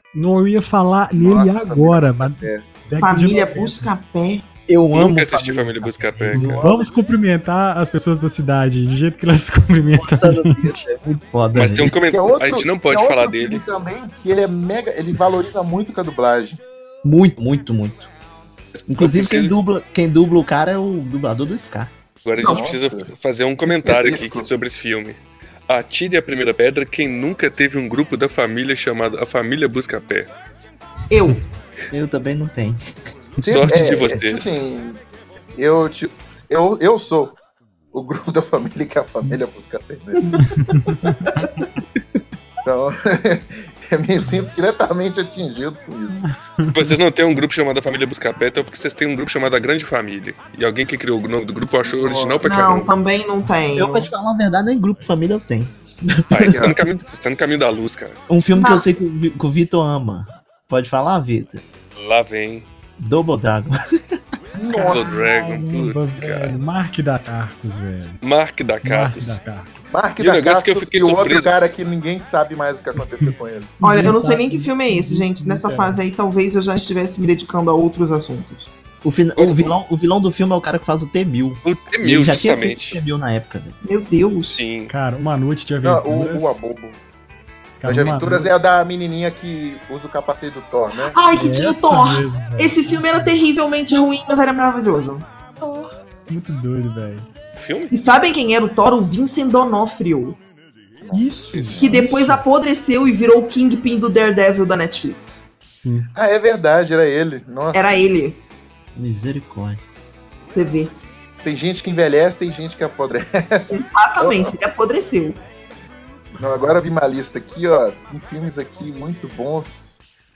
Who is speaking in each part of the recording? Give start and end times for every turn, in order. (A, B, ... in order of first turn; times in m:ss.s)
0:00.1-0:03.9 A
0:01.1-0:02.7 B
0:03.0-0:04.5 C
0:04.7-0:06.9 D
0:04.9-0:06.6 E
0:06.3-0:10.8 A
0:10.0-0:12.0 D
0:11.5-0:13.6 E
0:12.0-0:16.6 B
0:17.0-0:18.1 D
0:18.8-0:19.5 E
0:18.9-0:21.9 D
0:22.2-0:30.3 E
0:22.4-0:22.7 C
0:22.4-0:23.1 B
0:23.7-0:24.5 B
0:31.1-0:31.4 C
0:31.9-0:32.8 D
0:33.4-0:34.6 E
0:33.4-0:35.0 B
0:35.6-0:37.4 B
0:37.9-0:40.2 B
0:40.3-0:41.6 A
0:42.6-0:46.2 B
0:46.2-0:47.0 A
0:46.7-0:52.9 E
0:51.8-0:52.4 B
0:52.4-0:54.1 C
0:53.7-0:56.6 D
0:56.3-0:58.2 E
0:56.5-0:56.8 B
0:58.3-1:01.6 D
0:58.6-0:58.9 C
1:02.0-1:02.7 E
1:03.0-1:03.7 D
1:04.6-1:05.2 B
1:04.7-1:08.2 A
1:04.8-1:06.6 E
1:08.2-1:09.4 E
1:08.8-1:09.7 A
1:09.9-1:13.8 B
1:10.2-1:11.5 E
1:13.0-1:16.0 A
1:13.8-1:18.7 C
1:19.0-1:23.8 D
1:19.4-1:19.7 E
1:21.6-1:23.0 E
1:23.8-1:24.6 C
1:24.5-1:24.9 E
1:24.9-1:26.6 A
1:25.8-1:27.0 B
1:27.8-1:28.5 A
1:27.8-1:31.2 B
1:31.0-1:35.3 C
1:31.3-1:33.4 A
1:35.6-1:37.3 A
1:37.6-1:37.9 E
1:37.9-1:40.4 C
1:41.0-1:42.1 B
1:41.1-1:42.4 A
1:41.8-1:45.4 C
1:45.7-1:46.1 A
1:46.1-1:48.0 B
1:47.7-1:48.4 C
1:49.0-1:49.8 D
1:50.5-1:51.0 C
1:51.4-1:54.5 B
1:53.7-1:55.4 C
1:56.4-2:00.0 B